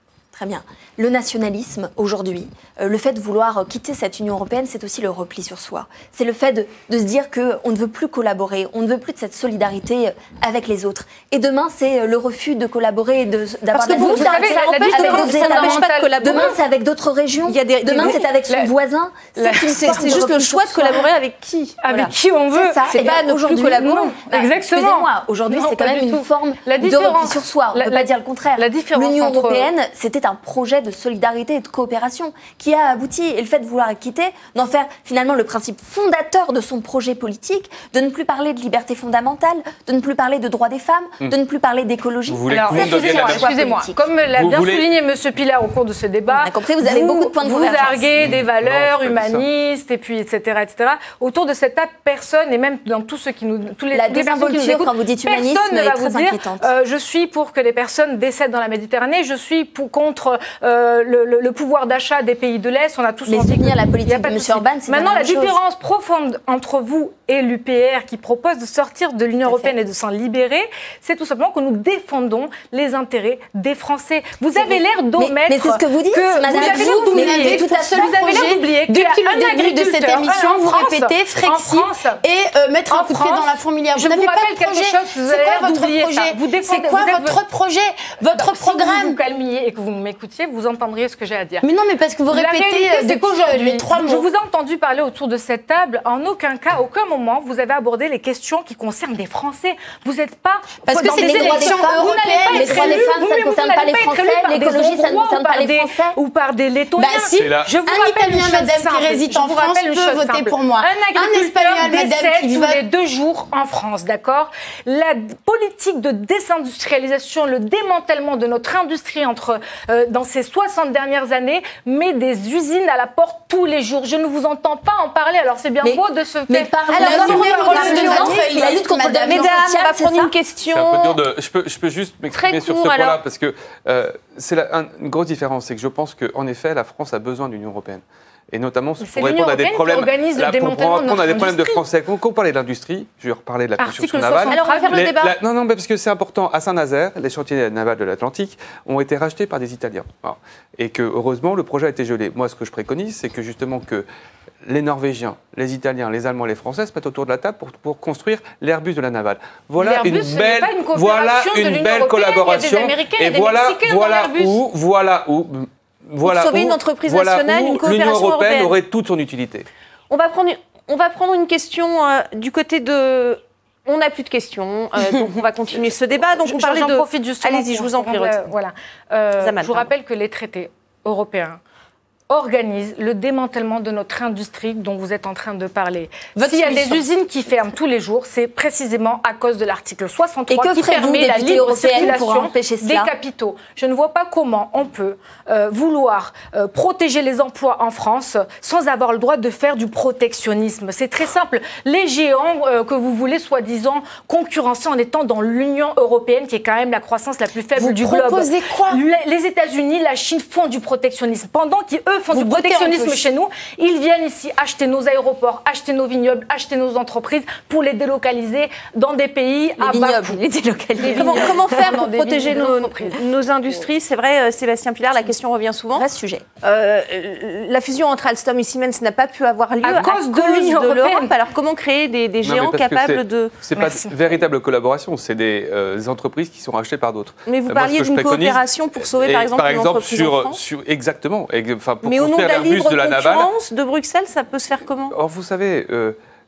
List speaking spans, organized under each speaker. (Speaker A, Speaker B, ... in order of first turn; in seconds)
Speaker A: 0.3-21.0, 22.5-44.0, 46.3-48.3, 53.9-56.7, 63.3-65.6, 69.5-69.7, 74.5-78.3, 101.0-106.2, 125.8-130.3, 190.5-193.1, 219.8-222.0, 225.9-226.4
Speaker B: 13.7-16.6, 17.5-18.3, 19.4-22.1, 22.9-23.3, 127.7-131.2, 132.3-133.2, 144.5-145.4, 166.2-168.8, 170.1-178.5, 179.4-179.9, 221.2-226.1, 226.6-233.5, 237.5-240.6, 242.0-245.2
Speaker C: 13.9-16.6, 19.4-20.2, 21.8-29.7, 42.5-82.2, 82.9-87.4, 88.3-91.7, 92.3-128.5, 139.0-141.8, 143.8-145.1, 159.8-164.6, 176.4-181.6, 182.3-220.4, 221.0-223.2, 229.8-231.3, 233.8-234.1
Speaker D: 42.3-43.5, 44.4-44.9, 48.2-49.5, 107.4-107.7, 130.7-154.1, 154.7-169.7, 232.4-243.5, 245.1-246.2
Speaker E: 76.5-89.2, 91.6-94.3, 100.9-103.1, 107.0-112.8, 127.0-129.6, 186.4-187.0, 207.8-209.0, 212.3-213.3